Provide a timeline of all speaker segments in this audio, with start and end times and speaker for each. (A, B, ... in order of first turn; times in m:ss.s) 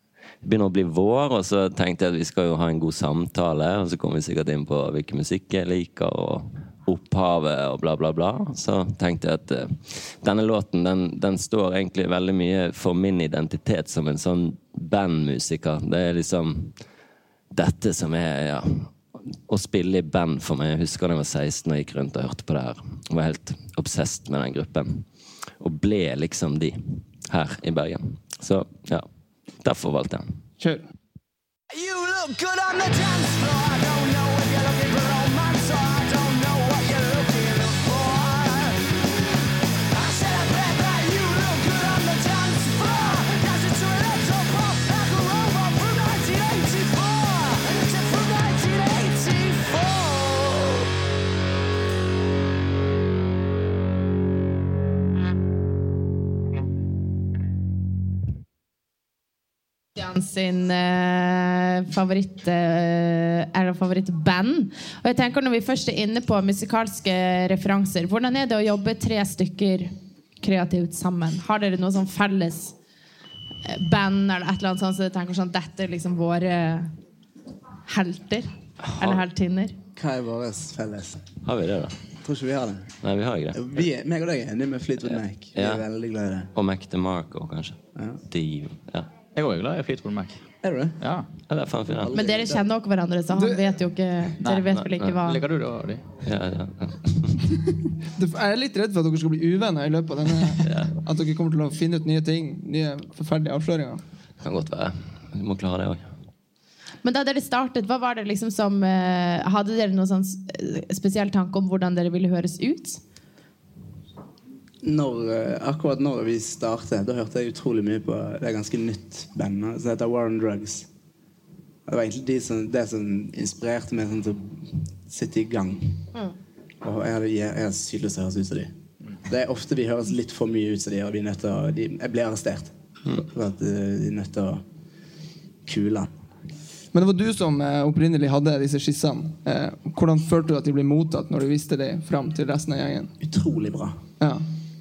0:00.4-0:16.8 A
0:17.5-0:19.0 A
0:19.5-0:25.1 A
0:25.6-0:29.1 A
0:29.6-0:30.4 A
0:30.6-0:30.8 B
0:31.7-0:38.8 C
0:39.9-0:50.8 C
1:00.0-1:12.7 D
1:13.6-1:16.9 D
1:17.8-1:19.8 D
1:18.8-1:19.2 A
1:20.0-1:21.2 E
1:21.4-1:22.0 A
1:22.2-1:22.9 E
1:23.0-1:23.8 A
1:23.5-1:26.5 E
1:25.5-1:25.8 A
1:26.5-1:29.1 A
1:27.9-1:28.2 E
1:29.3-1:30.4 F
1:30.6-1:31.0 E
1:31.0-1:31.3 F
1:31.5-1:32.1 A
1:32.0-1:32.6 E
1:32.1-1:35.4 D
1:33.3-1:33.6 B
1:34.4-1:36.0 F
1:36.2-1:37.5 A
1:38.1-1:44.0 B
1:44.4-1:46.1 A
1:47.0-1:53.0 D
1:54.8-2:00.9 E
2:01.8-2:06.1 E
2:06.8-2:08.7 E
2:09.2-2:14.6 E
2:15.6-2:16.1 E
2:16.9-2:23.1 B
2:23.2-2:24.0 E
2:24.2-2:24.4 B